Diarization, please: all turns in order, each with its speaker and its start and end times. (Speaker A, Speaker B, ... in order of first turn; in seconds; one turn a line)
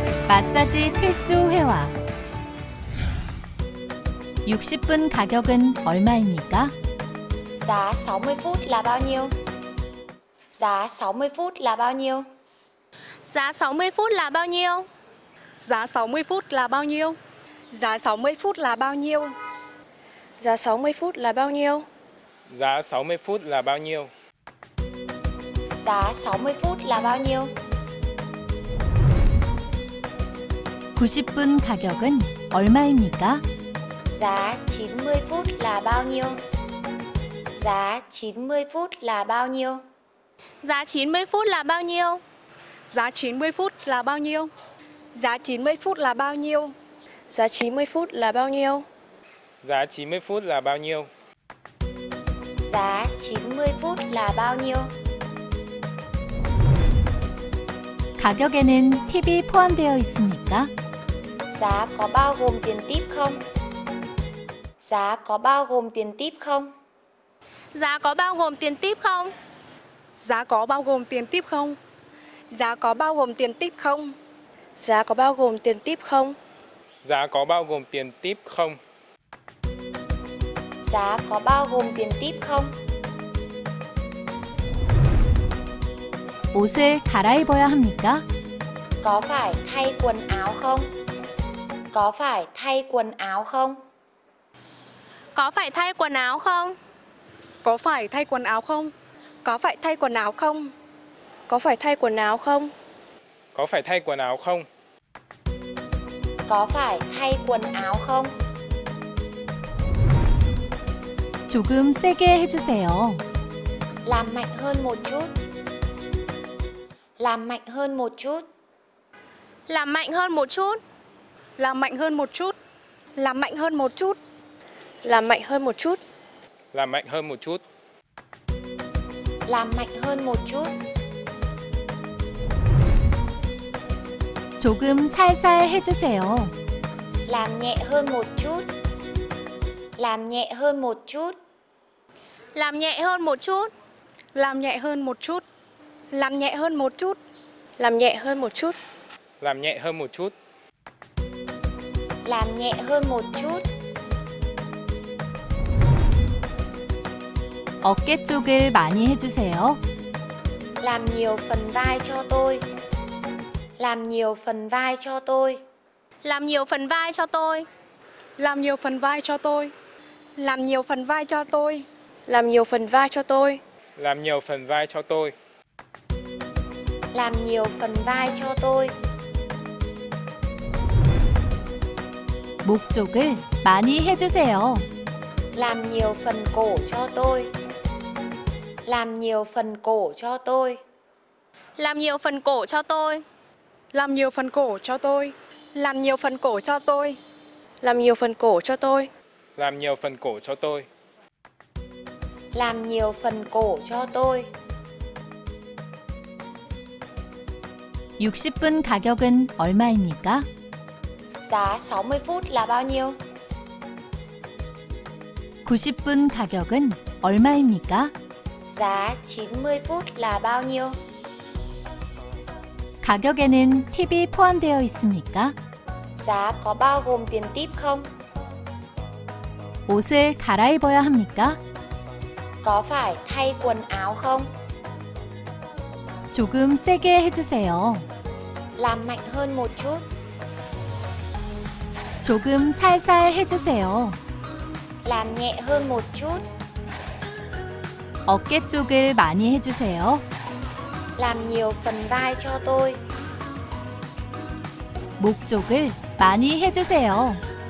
Speaker A: 0.3-1.9
Speaker A: 4.4-6.7
Speaker B: 7.6-9.3
Speaker B: 10.5-12.2
Speaker C: 13.3-14.9
Speaker D: 15.6-17.2
Speaker D: 17.7-19.3
Speaker E: 20.4-21.9
Speaker F: 22.5-24.1
Speaker B: 25.8-27.5
Speaker A: 30.9-33.4
Speaker B: 34.1-36.4
Speaker B: 37.5-39.8
Speaker C: 40.6-42.2
Speaker D: 42.9-44.5
Speaker D: 45.1-46.7
Speaker E: 47.3-48.9
Speaker F: 49.6-51.1
Speaker B: 52.6-54.9
Speaker A: 58.2-60.7
Speaker B: 61.5-63.4
Speaker B: 64.8-66.7
Speaker C: 67.7-69.3
Speaker D: 70.2-71.8
Speaker D: 72.5-74.1
Speaker E: 74.8-76.3
Speaker F: 77.0-78.8
Speaker B: 80.8-82.7
Speaker A: 86.5-88.2
Speaker B: 89.0-90.9
Speaker B: 91.9-93.8
Speaker C: 95.3-96.8
Speaker D: 97.6-98.9
Speaker D: 99.4-100.7
Speaker E: 101.5-102.7
Speaker F: 103.5-104.7
Speaker B: 106.5-108.3
Speaker A: 111.5-113.2
Speaker B: 114.0-115.3
Speaker B: 117.2-118.4
Speaker C: 119.7-120.8
Speaker D: 121.6-122.5
Speaker D: 123.2-124.2
Speaker E: 125.0-126.0
Speaker F: 126.7-127.6
Speaker B: 129.5-130.7
Speaker A: 134.6-136.5
Speaker B: 137.3-138.6
Speaker B: 140.0-141.3
Speaker C: 142.5-143.7
Speaker D: 144.3-145.4
Speaker D: 146.1-147.2
Speaker E: 147.8-148.8
Speaker F: 149.4-150.3
Speaker B: 152.2-153.6
Speaker A: 157.8-159.8
Speaker B: 160.8-162.7
Speaker B: 163.8-165.6
Speaker C: 166.2-167.7
Speaker D: 168.4-169.7
Speaker D: 170.4-171.9
Speaker E: 172.3-173.6
Speaker F: 174.0-175.3
Speaker B: 177.1-178.9
Speaker A: 182.6-184.9
Speaker B: 185.5-187.5
Speaker B: 188.8-190.8
Speaker C: 191.8-193.2
Speaker D: 193.9-197.2
Speaker E: 197.8-199.1
Speaker F: 199.6-200.9
Speaker B: 202.5-204.5
Speaker A: 208.2-210.4
Speaker B: 211.4-213.2
Speaker A: 215.6-218.1
Speaker B: 218.7-221.0
Speaker A: 223.0-225.5
Speaker B: 226.2-228.1
Speaker A: 229.9-231.6
Speaker B: 232.6-234.5
Speaker A: 236.3-238.0
Speaker B: 238.8-240.0
Speaker A: 242.2-244.2
Speaker B: 245.0-246.4
Speaker A: 248.2-250.2
Speaker B: 251.2-253.0
Speaker A: 255.2-257.4